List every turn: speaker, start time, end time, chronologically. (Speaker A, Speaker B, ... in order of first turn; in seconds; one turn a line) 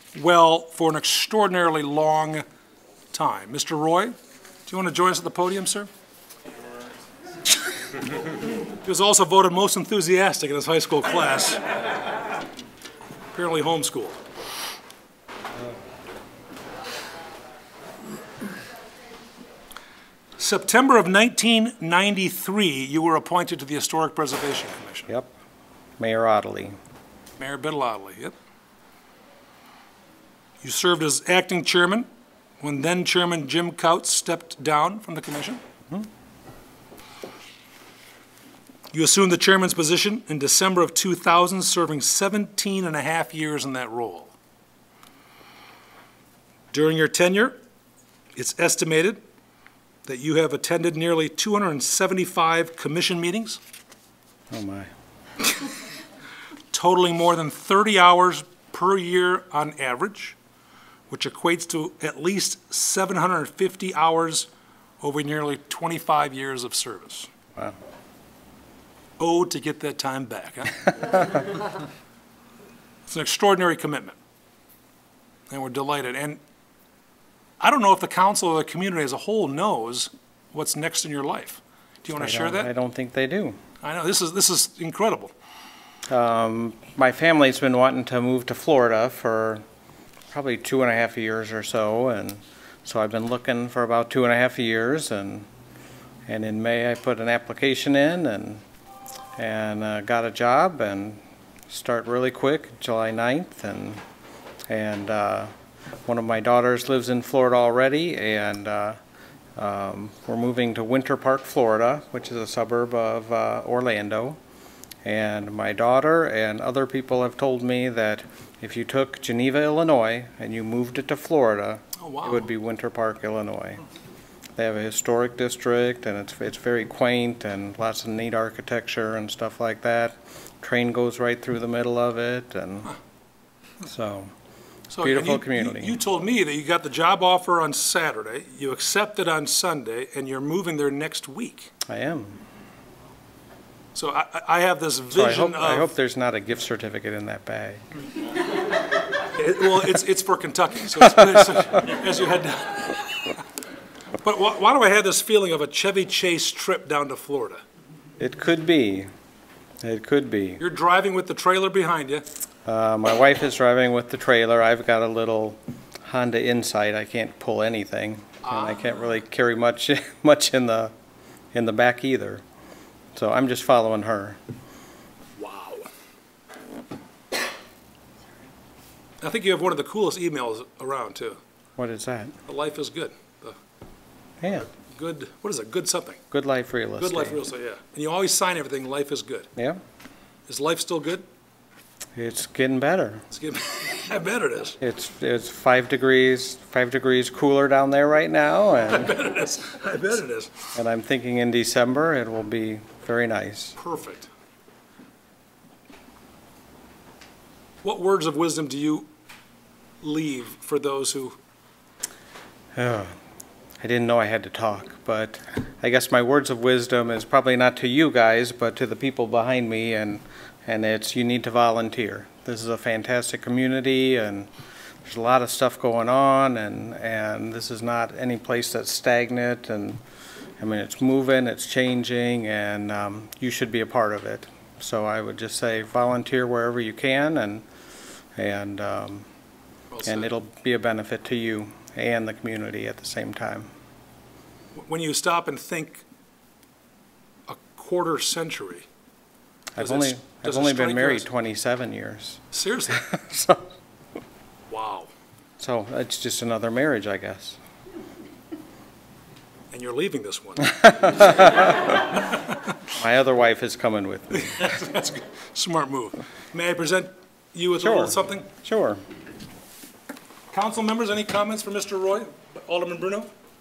Speaker A: 0.1-2.4
Speaker A: 3.1-4.2
Speaker A: 4.7-5.9
Speaker A: 8.8-11.6
Speaker A: 13.3-14.2
Speaker A: 20.4-25.1
Speaker B: 26.0-26.8
Speaker A: 27.4-28.3
Speaker A: 30.6-32.1
Speaker A: 32.6-35.6
Speaker A: 38.9-44.3
Speaker A: 46.7-47.5
Speaker A: 48.4-49.2
Speaker A: 50.1-53.6
Speaker B: 54.5-54.9
Speaker A: 56.7-60.4
Speaker A: 61.1-64.5
Speaker A: 65.0-67.3
Speaker A: 69.2-71.2
Speaker A: 73.1-74.2
Speaker A: 75.5-76.4
Speaker A: 77.6-82.7
Speaker B: 82.2-83.6
Speaker A: 83.8-85.3
Speaker B: 86.1-89.6
Speaker B: 90.3-95.5
Speaker B: 96.3-98.6
Speaker B: 99.4-104.0
Speaker B: 104.7-105.5
Speaker B: 106.1-109.0
Speaker B: 109.6-114.4
Speaker B: 115.0-123.8
Speaker A: 122.0-122.5
Speaker B: 124.6-132.9
Speaker B: 133.8-134.3
Speaker A: 134.9-141.7
Speaker B: 135.0-136.0
Speaker B: 141.9-142.4
Speaker A: 143.9-145.9
Speaker B: 145.1-147.8
Speaker A: 149.3-153.4
Speaker A: 154.2-157.6
Speaker B: 158.2-159.1
Speaker B: 159.8-160.6
Speaker A: 160.6-162.3
Speaker B: 162.7-170.9
Speaker A: 168.4-169.1
Speaker B: 171.5-172.4
Speaker B: 173.1-174.4
Speaker A: 175.4-175.9
Speaker A: 179.2-181.4
Speaker B: 181.8-182.3
Speaker A: 182.5-183.6
Speaker B: 184.4-184.7
Speaker A: 184.7-186.2
Speaker B: 186.3-187.4
Speaker A: 187.0-189.5
Speaker B: 189.6-189.8
Speaker A: 190.5-191.2
Speaker B: 192.2-193.2
Speaker A: 193.3-194.8
Speaker B: 194.8-199.2
Speaker A: 198.9-200.7
Speaker B: 200.8-203.8
Speaker A: 203.8-204.3
Speaker A: 207.8-209.1
Speaker A: 210.0-211.4
Speaker B: 212.8-213.1
Speaker B: 213.8-224.5
Speaker B: 225.1-230.0
Speaker B: 230.6-237.7
Speaker B: 238.4-239.3
Speaker A: 239.9-240.3
Speaker B: 240.0-243.7
Speaker A: 244.8-246.0
Speaker A: 247.5-248.9
Speaker B: 249.8-253.7
Speaker A: 249.8-251.3
Speaker A: 252.5-253.0
Speaker A: 254.7-255.1
Speaker B: 255.6-257.6
Speaker A: 259.7-261.7
Speaker B: 261.0-261.8
Speaker B: 262.9-264.8
Speaker A: 264.3-268.5
Speaker B: 267.8-269.0
Speaker A: 270.5-273.3